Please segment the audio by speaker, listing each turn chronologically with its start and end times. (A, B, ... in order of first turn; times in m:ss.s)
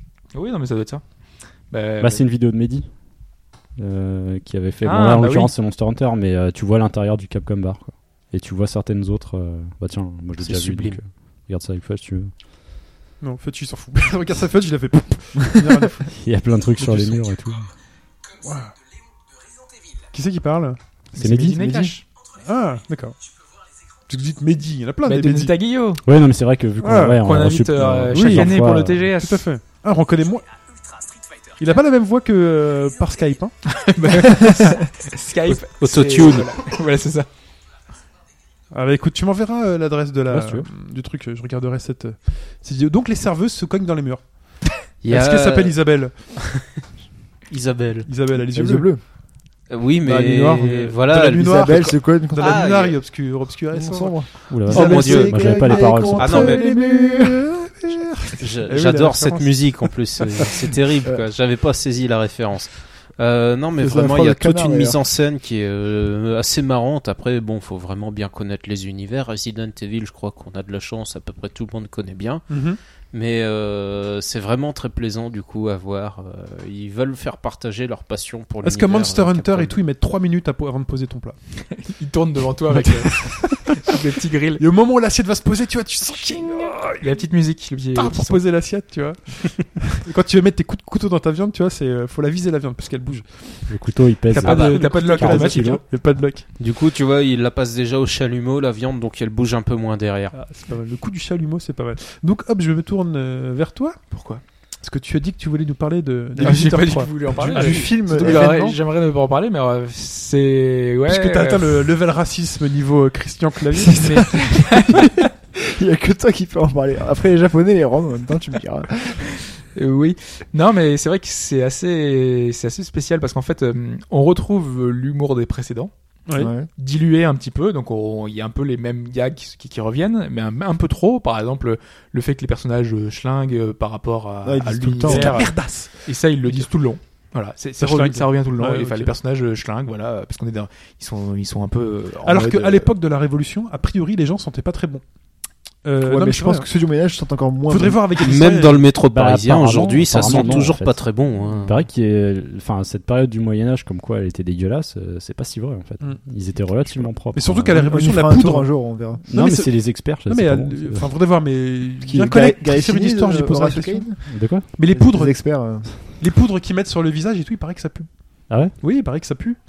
0:00.3-0:01.0 A
0:01.7-0:02.2 A
0:02.0-0:02.9 B
0:03.8-0:12.3 B
0:04.8-0:05.5 A
0:10.4-0:11.0 C
0:13.2-0:16.1 D
0:16.1-0:17.7 B
0:16.8-0:17.2 D
0:18.4-0:18.7 D
0:20.1-0:20.8 D
0:21.1-0:22.1 A
0:21.2-0:21.9 B
0:22.3-0:23.2 D
0:24.1-0:25.5 D
0:25.0-0:26.0 A
0:26.0-0:29.0 B
0:26.8-0:27.2 D
0:27.2-0:29.4 A
0:28.1-0:30.5 D
0:31.6-0:33.6 D
0:33.7-0:37.3 A
0:35.5-0:36.5 C
0:38.7-0:44.5 D
0:40.3-0:40.7 B
0:45.0-0:45.8 C
0:45.1-0:46.7 D
0:46.3-0:46.7 C
0:47.5-0:48.1 C
0:48.1-0:48.9 D
0:48.5-0:49.0 E
0:49.7-0:53.0 C
0:50.0-0:50.9 E
0:50.3-1:00.5 D
0:51.4-0:52.7 E
0:53.7-0:57.9 E
0:54.5-0:56.5 B
0:54.7-0:55.5 C
0:56.2-0:56.6 C
0:58.4-1:12.5 C
1:03.8-1:05.0 E
1:12.5-1:12.8 D
1:13.1-1:19.8 C
1:18.6-1:21.4 D
1:21.6-1:24.6 A
1:22.7-1:24.0 D
1:24.6-1:27.2 D
1:27.0-1:28.4 A
1:28.0-1:33.8 D
1:33.7-1:35.8 B
1:34.3-1:35.8 A
1:34.4-1:36.5 D
1:34.5-1:35.0 C
1:36.6-1:40.3 C
1:40.3-1:44.0 D
1:44.1-1:44.4 A
1:44.8-1:48.5 D
1:46.4-1:46.7 E
1:46.4-1:51.9 A
1:47.4-1:48.8 E
1:51.1-1:54.3 D
1:53.8-1:59.4 E
1:53.9-1:55.2 A
1:59.8-2:05.9 A
2:06.4-2:06.7 E
2:06.8-2:22.9 A
2:14.4-2:15.6 E
2:15.0-2:16.1 D
2:17.8-2:19.1 D
2:22.2-2:25.0 D
2:25.8-2:26.7 D
2:26.0-2:28.1 E
2:27.7-2:28.9 D
2:28.2-2:31.9 C
2:29.1-2:37.8 B
2:30.2-2:30.5 D
2:36.0-2:44.1 D
2:37.7-2:39.3 E
2:39.3-2:41.1 B
2:42.0-2:46.2 E
2:44.2-2:44.7 B
2:44.7-2:49.6 D
2:48.5-2:48.7 B